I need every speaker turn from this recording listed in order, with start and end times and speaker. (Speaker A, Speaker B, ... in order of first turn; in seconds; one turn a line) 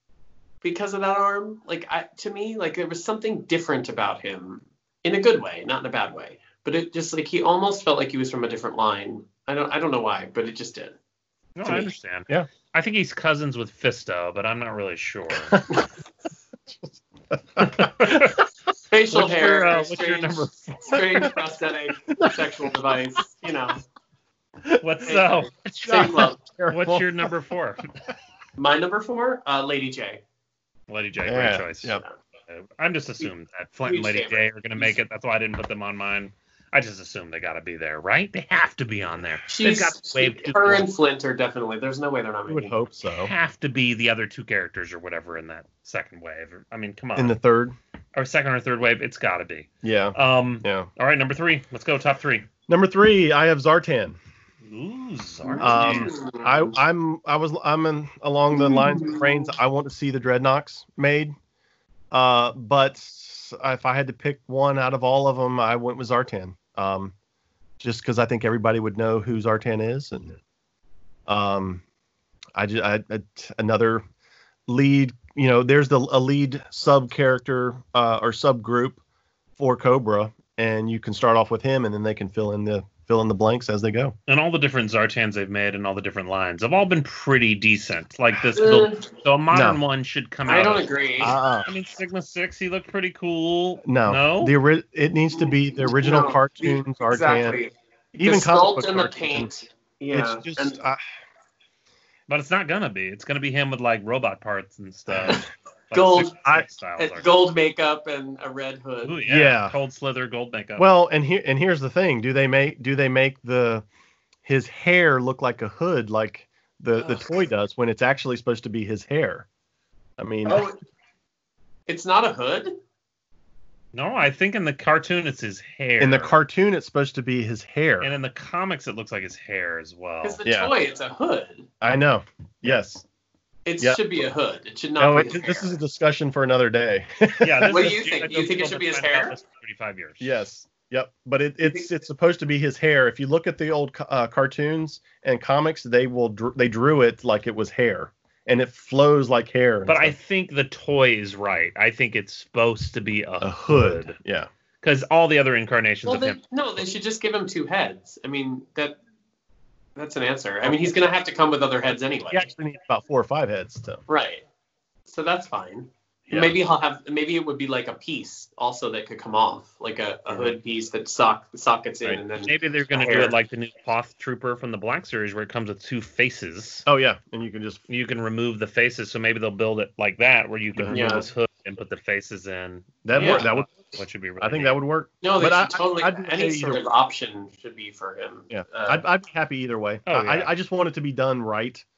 Speaker A: 0.6-10.9
Speaker B: 11.6-15.6
Speaker C: 11.7-12.5
Speaker C: 15.5-15.8
Speaker C: 16.7-18.1
Speaker B: 17.6-18.4
Speaker A: 18.9-23.8
Speaker B: 19.1-21.0
Speaker C: 22.1-22.8
Speaker B: 24.8-27.9
Speaker A: 25.0-26.4
Speaker C: 25.8-27.3
Speaker A: 28.6-30.2
Speaker B: 30.9-40.9
Speaker C: 31.2-32.0
Speaker A: 33.8-34.9
Speaker A: 39.5-42.8
Speaker C: 42.5-43.3
Speaker B: 43.2-47.4
Speaker C: 47.1-47.8
Speaker B: 48.1-52.5
Speaker C: 49.8-50.9
Speaker C: 52.7-54.2
Speaker B: 54.6-56.1
Speaker A: 55.4-56.7
Speaker C: 55.6-61.3
Speaker A: 58.5-59.5
Speaker C: 62.1-67.1
Speaker C: 67.8-70.4
Speaker C: 71.3-71.8
Speaker C: 72.5-74.0
Speaker C: 74.7-79.0
Speaker C: 79.6-84.1
Speaker B: 84.3-90.9
Speaker A: 88.5-89.1
Speaker C: 89.5-89.8
Speaker A: 90.5-91.3
Speaker C: 91.2-91.7
Speaker B: 91.6-94.5
Speaker C: 93.8-97.6
Speaker A: 95.3-97.7
Speaker C: 98.1-99.5
Speaker A: 98.2-100.8
Speaker C: 100.1-101.0
Speaker B: 102.3-107.3
Speaker A: 105.3-106.4
Speaker C: 106.3-106.6
Speaker A: 107.0-109.2
Speaker B: 109.0-110.9
Speaker C: 109.2-109.8
Speaker C: 110.8-113.8
Speaker C: 114.4-119.5
Speaker A: 117.0-117.4
Speaker C: 120.2-120.7
Speaker A: 120.4-120.8
Speaker A: 121.9-122.8
Speaker B: 123.9-126.3
Speaker C: 126.0-128.1
Speaker B: 128.0-130.4
Speaker A: 130.2-131.7
Speaker C: 130.4-130.7
Speaker C: 131.8-133.0
Speaker A: 133.7-135.8
Speaker C: 135.0-138.0
Speaker B: 137.4-140.3
Speaker A: 137.7-139.4
Speaker C: 140.2-150.1
Speaker B: 149.8-154.2
Speaker C: 153.4-154.5
Speaker B: 154.8-156.4
Speaker A: 156.1-159.0
Speaker A: 159.9-162.5
Speaker C: 160.6-160.9
Speaker C: 162.3-164.0
Speaker A: 164.1-164.4
Speaker A: 165.1-173.3
Speaker C: 170.3-170.6
Speaker B: 172.4-176.8
Speaker C: 176.8-177.8
Speaker B: 177.9-184.8
Speaker C: 180.7-181.0
Speaker A: 180.9-181.3
Speaker C: 183.0-183.8
Speaker A: 183.2-183.5
Speaker C: 184.4-186.8
Speaker A: 185.2-189.0
Speaker C: 188.5-191.8
Speaker B: 190.1-190.5